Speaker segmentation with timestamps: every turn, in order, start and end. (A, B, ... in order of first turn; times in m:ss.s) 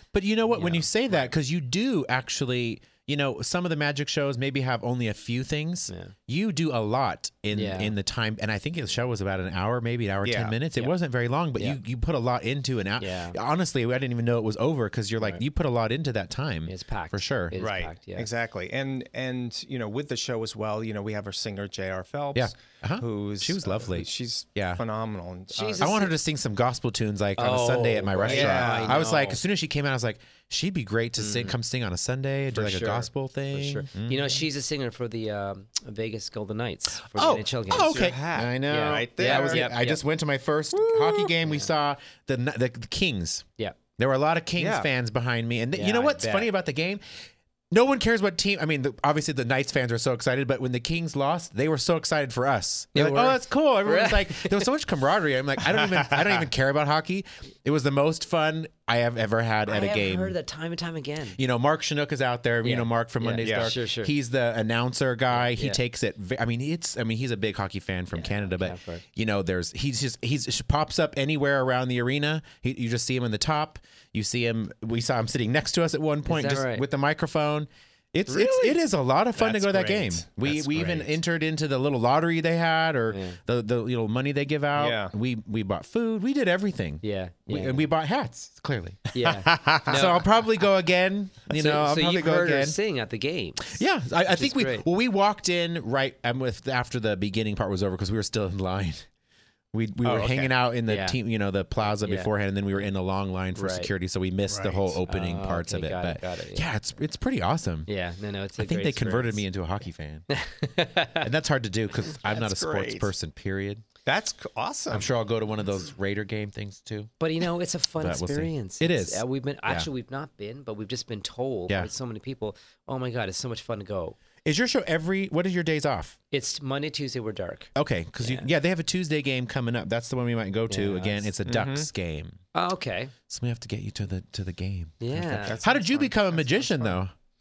0:00.1-0:17.6 A
0:00.5-0:00.9 B
0:07.5-0:07.9 B
0:10.2-0:10.6 C
0:13.0-0:13.4 B
0:16.7-0:18.3 B
0:17.6-0:26.0 C
0:22.4-0:24.8 A
0:25.5-0:26.1 B
0:25.8-0:34.4 A
0:27.4-0:29.4 B
0:28.3-0:29.1 C
0:31.2-0:31.6 B
0:32.5-0:38.2 B
0:37.0-0:43.4 A
0:37.7-0:39.7 C
0:38.7-0:40.0 B
0:40.7-0:41.4 C
0:44.0-0:47.0 A
0:44.6-0:44.9 C
0:45.7-0:46.5 B
0:47.7-1:00.4 A
0:52.9-0:54.7 B
0:56.0-0:56.2 C
0:59.7-1:01.4 B
1:01.4-1:29.1 A
1:02.6-1:04.1 B
1:03.4-1:03.7 C
1:05.3-1:05.8 B
1:08.1-1:09.0 B
1:16.3-1:16.9 B
1:18.4-1:18.7 C
1:19.4-1:21.2 C
1:23.1-1:23.4 B
1:24.8-1:25.1 C
1:27.0-1:27.9 B
1:29.1-1:30.0 C
1:29.1-1:30.2 B
1:29.9-1:32.8 A
1:31.5-1:34.9 B
1:33.7-1:39.0 A
1:39.7-1:47.9 A
1:40.0-1:40.5 C
1:40.9-1:41.2 B
1:41.8-1:42.3 B
1:43.6-1:43.9 B
1:44.5-1:45.0 C
1:45.1-1:46.7 B
1:47.9-1:49.4 B
1:48.6-1:50.3 A
1:50.3-1:51.3 B
1:51.2-1:53.8 A
1:52.1-1:53.1 C
1:54.0-1:55.1 C
1:54.9-1:57.1 A
1:57.2-2:04.2 B
1:58.0-1:59.9 A
2:04.4-2:06.2 A
2:06.3-2:08.5 B
2:07.8-2:12.4 A
2:10.7-2:11.3 B
2:11.4-2:11.9 C
2:12.5-2:13.1 B
2:13.3-2:17.1 A
2:15.0-2:15.6 B
2:15.2-2:17.0 C